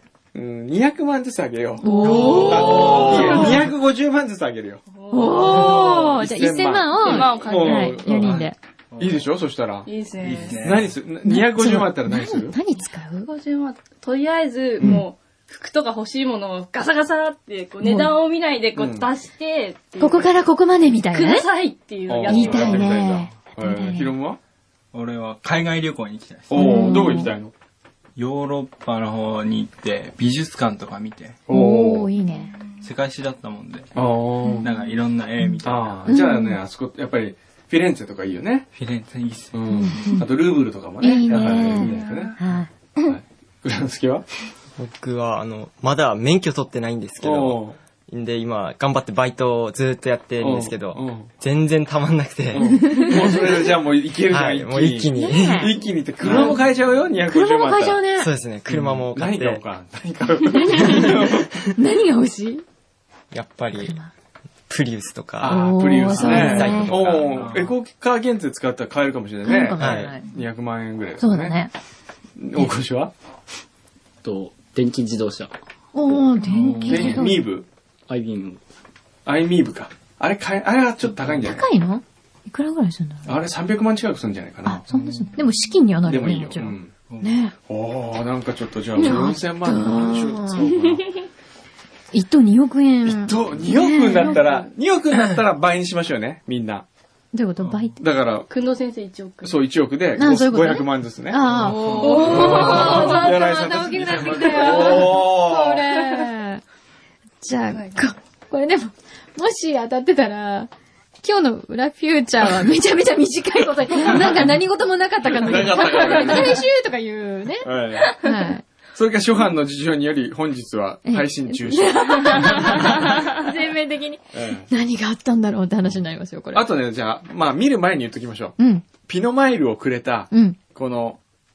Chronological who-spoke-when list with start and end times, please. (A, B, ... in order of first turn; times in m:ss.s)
0:00.3-0:04.8 A
0:01.8-0:03.5 B
0:02.0-0:03.4 C
0:02.2-0:03.4 D
0:04.9-0:06.0 C
0:05.1-0:08.6 B
0:05.4-0:09.9 A
0:07.0-0:08.1 C
0:08.2-0:09.2 D
0:09.8-0:10.7 C
0:10.2-0:10.9 D
0:10.5-0:12.6 A
0:11.2-0:13.3 B
0:13.3-0:20.3 C
0:14.8-0:15.0 A
0:17.8-0:18.1 B
0:18.8-0:19.1 A
0:20.0-0:21.5 B
0:21.1-0:23.0 C
0:22.1-0:24.4 A
0:22.2-0:24.1 B
0:24.9-0:27.1 D
0:26.5-0:27.5 A
0:26.5-0:27.3 B
0:28.2-0:31.4 D
0:31.5-0:32.1 A
0:31.5-0:32.5 B
0:32.4-0:32.8 C
0:32.8-0:33.9 D
0:33.9-0:34.7 A
0:34.6-0:36.1 D
0:35.6-0:38.7 A
0:36.1-0:36.6 B
0:38.8-0:39.8 D
0:39.5-0:42.4 A
0:39.7-0:40.3 B
0:41.0-0:42.7 B
0:41.8-0:42.4 C
0:43.0-0:44.2 A
0:44.8-0:53.0 E
0:47.2-0:47.8 A
0:50.4-0:51.3 A
0:52.5-0:58.0 A
0:52.6-0:53.4 B
0:54.3-0:56.5 E
0:55.2-0:56.6 B
0:57.3-0:58.3 B
0:58.1-0:59.6 E
0:58.7-1:01.6 A
1:00.6-1:02.6 B
1:03.3-1:04.0 E
1:03.8-1:04.1 B
1:04.7-1:07.4 E
1:05.4-1:11.6 A
1:05.4-1:07.0 B
1:07.3-1:07.7 D
1:09.4-1:10.3 B
1:09.8-1:10.2 E
1:11.2-1:11.7 B
1:12.4-1:13.1 A
1:14.2-1:15.5 F
1:15.9-1:17.4 B
1:16.5-1:17.7 A
1:16.9-1:17.2 F
1:18.1-1:18.6 F
1:19.2-1:21.7 A
1:21.3-1:23.3 B
1:23.2-1:25.3 A
1:24.6-1:27.5 B
1:26.0-1:26.9 A
1:27.7-1:31.0 A
1:29.0-1:30.7 B
1:32.1-1:34.4 B
1:33.0-1:36.8 A
1:34.3-1:34.6 C
1:37.3-1:38.0 B
1:38.0-1:38.5 A
1:38.5-1:39.6 C
1:39.4-1:41.4 A
1:40.2-1:46.6 B
1:41.5-1:42.8 D
1:41.6-1:43.3 C
1:42.3-1:45.9 A
1:44.6-1:45.2 C
1:47.4-1:50.7 B
1:47.7-1:48.0 C
1:51.2-1:58.6 B
1:54.1-1:54.5 A
1:55.2-1:56.6 A
1:57.6-1:58.2 A
1:58.9-2:03.1 A
2:01.0-2:06.7 B
2:02.3-2:02.6 C
2:04.3-2:04.7 A
2:06.5-2:11.2 A
2:08.6-2:08.8 B
2:10.3-2:10.6 B